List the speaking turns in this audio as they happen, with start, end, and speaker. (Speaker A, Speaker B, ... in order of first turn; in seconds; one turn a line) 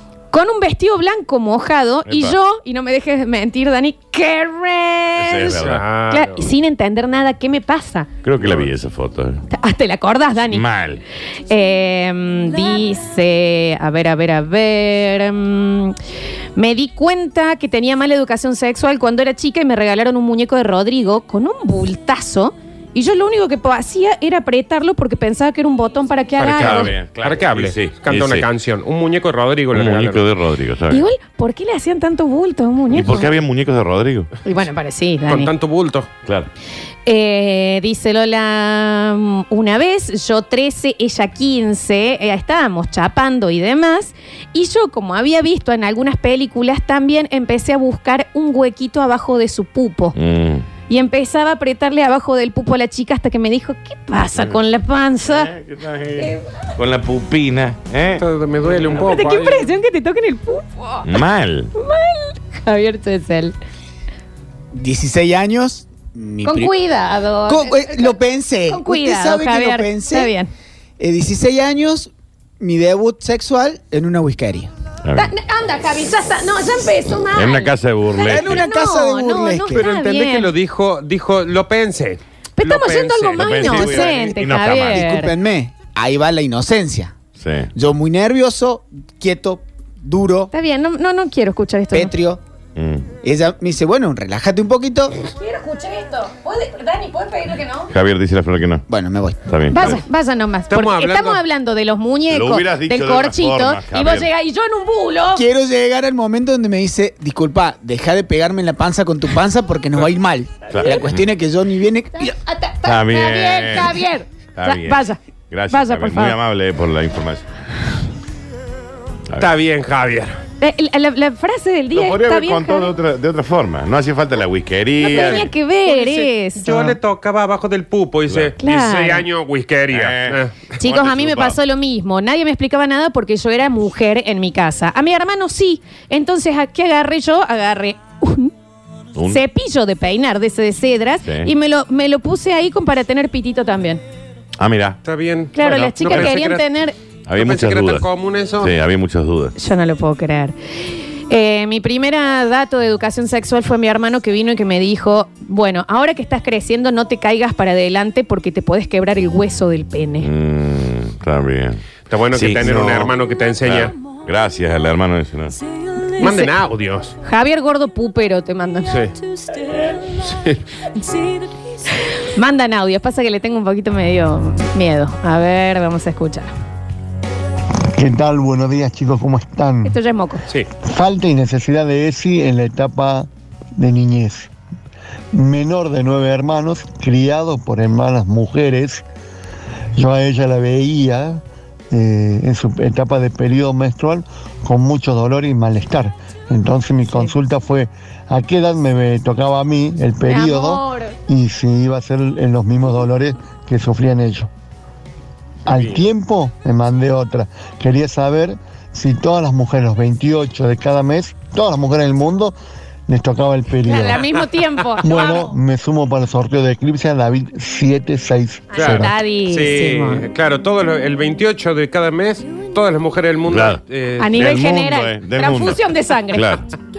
Speaker A: 0.3-8.1
Speaker B: 2.1-2.4
Speaker B: 5.2-5.8
Speaker C: 5.5-6.5
Speaker B: 8.2-9.4
Speaker A: 9.5-10.7
Speaker B: 10.5-11.0
Speaker A: 11.5-16.0
Speaker A: 16.6-26.9
Speaker C: 26.4-30.3
Speaker B: 26.5-28.5
Speaker B: 29.7-31.1
Speaker A: 30.9-33.3
Speaker B: 32.9-34.3
Speaker A: 34.5-35.5
Speaker C: 35.3-36.1
Speaker A: 37.1-50.2
Speaker B: 50.1-50.7
Speaker A: 50.9-55.5
Speaker B: 55.2-58.2
Speaker C: 58.2-59.6
Speaker A: 59.0-61.1
Speaker B: 61.0-61.7
Speaker A: 61.8-63.5
Speaker D: 64.7-66.7
Speaker A: 66.4-70.5
Speaker D: 67.5-70.3
Speaker D: 71.0-74.7
Speaker B: 75.0-75.3
Speaker A: 75.2-80.5
Speaker B: 77.3-78.6
Speaker D: 78.3-79.9
Speaker C: 79.7-84.3
Speaker A: 82.6-85.3
Speaker B: 83.4-85.1
Speaker D: 85.0-87.1
Speaker B: 87.4-87.7
Speaker D: 87.8-90.5
Speaker A: 90.5-92.1
Speaker D: 91.9-92.4
Speaker B: 92.8-93.1
Speaker D: 93.2-95.2
Speaker A: 95.2-97.9
Speaker B: 97.9-98.8
Speaker D: 98.9-99.4
Speaker B: 99.4-100.0
Speaker A: 99.7-105.5
Speaker C: 100.7-101.4
Speaker B: 102.3-104.3
Speaker D: 105.4-112.3
Speaker B: 110.7-111.2
Speaker A: 112.2-115.2
Speaker B: 112.8-114.0
Speaker B: 114.5-117.5
Speaker A: 115.7-116.4
Speaker C: 119.4-120.4
Speaker A: 120.6-122.9
Speaker B: 121.9-125.5
Speaker A: 125.0-127.0
Speaker C: 125.0-130.6
Speaker B: 128.3-128.5
Speaker A: 128.6-129.2
Speaker B: 129.9-131.6
Speaker A: 130.8-138.5
Speaker B: 139.2-139.4
Speaker A: 139.3-144.0
Speaker B: 141.2-141.5
Speaker B: 144.6-145.0
Speaker C: 145.1-146.7
Speaker A: 145.6-146.9
Speaker B: 146.1-146.3
Speaker B: 147.3-148.1
Speaker C: 147.4-148.7
Speaker B: 148.6-149.6
Speaker A: 149.6-150.6
Speaker A: 151.3-160.3
Speaker B: 160.2-163.1
Speaker C: 162.1-163.9
Speaker B: 163.6-165.6
Speaker A: 166.2-166.5
Speaker C: 166.2-167.2
Speaker A: 167.2-169.0
Speaker C: 170.2-170.6
Speaker A: 172.2-176.5
Speaker E: 178.0-180.0
Speaker A: 179.8-180.4
Speaker E: 180.8-184.5
Speaker E: 185.3-189.0
Speaker E: 190.0-204.5
Speaker A: 200.3-201.2
Speaker E: 205.7-212.6
Speaker E: 213.1-214.3
Speaker A: 213.8-215.5
Speaker E: 215.0-219.1
Speaker A: 218.7-220.2
Speaker C: 218.8-224.6
Speaker B: 223.5-223.8
Speaker A: 224.2-226.6
Speaker B: 224.3-226.6